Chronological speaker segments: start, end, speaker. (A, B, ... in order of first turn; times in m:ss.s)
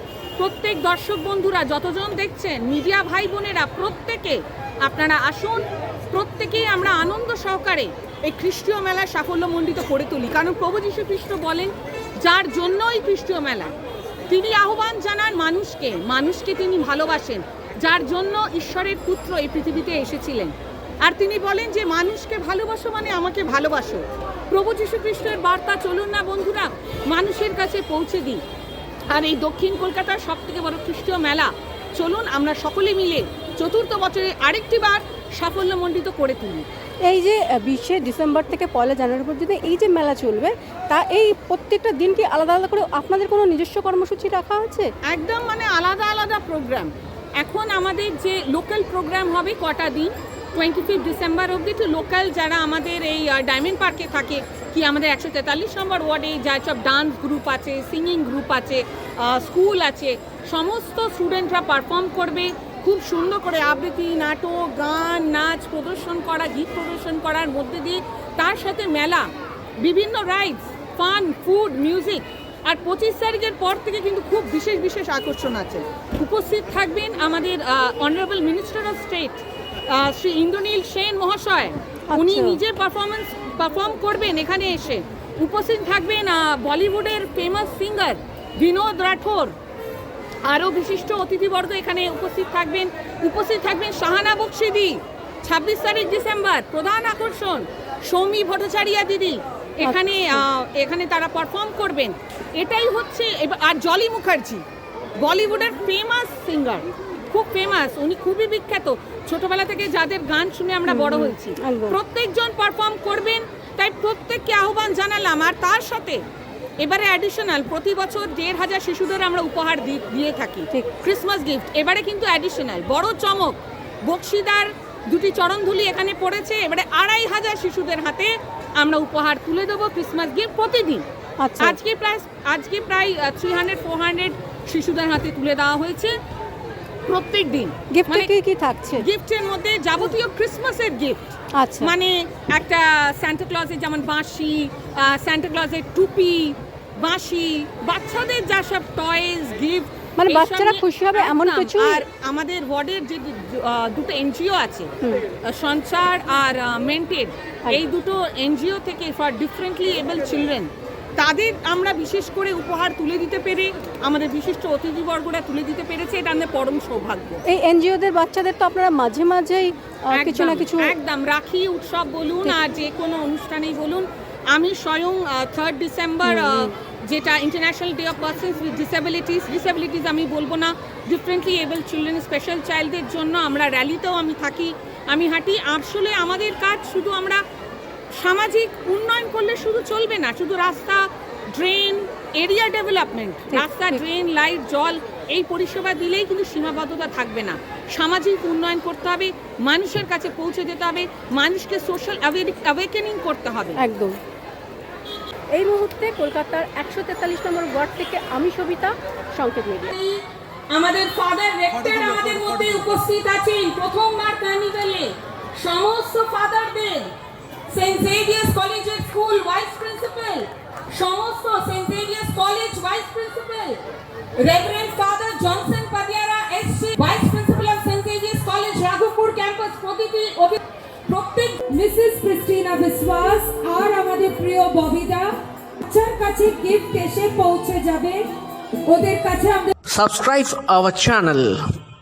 0:00.4-0:13.8 A
0:14.3-0:28.4 A
0:29.1-0:36.6 A
0:37.0-0:44.9 B
0:45.1-1:29.5 A
1:22.1-1:22.6 B
1:30.5-1:44.6 A
1:39.8-1:40.4 B
1:45.2-1:56.2 A
1:50.9-1:52.0 B
1:56.8-2:11.0 A
2:11.4-2:11.8 B
2:11.6-2:16.1 A
2:17.1-2:18.3 A
2:17.9-2:19.0 B
2:19.0-2:47.4 A
2:21.6-2:21.9 B
2:30.2-2:32.0 B
2:47.5-2:50.9 B
2:50.1-3:07.4 A
2:56.2-2:56.7 B
3:08.2-3:23.8 A
3:13.5-3:14.0 B
3:23.8-3:24.1 B
3:25.5-3:29.9 B
3:29.9-3:37.1 A
3:37.7-3:43.8 A
3:44.4-3:46.9 A
3:46.5-3:49.6 C
3:47.9-3:50.5 A
3:51.1-3:58.2 C
3:58.8-3:59.7 C
3:59.8-4:01.8 D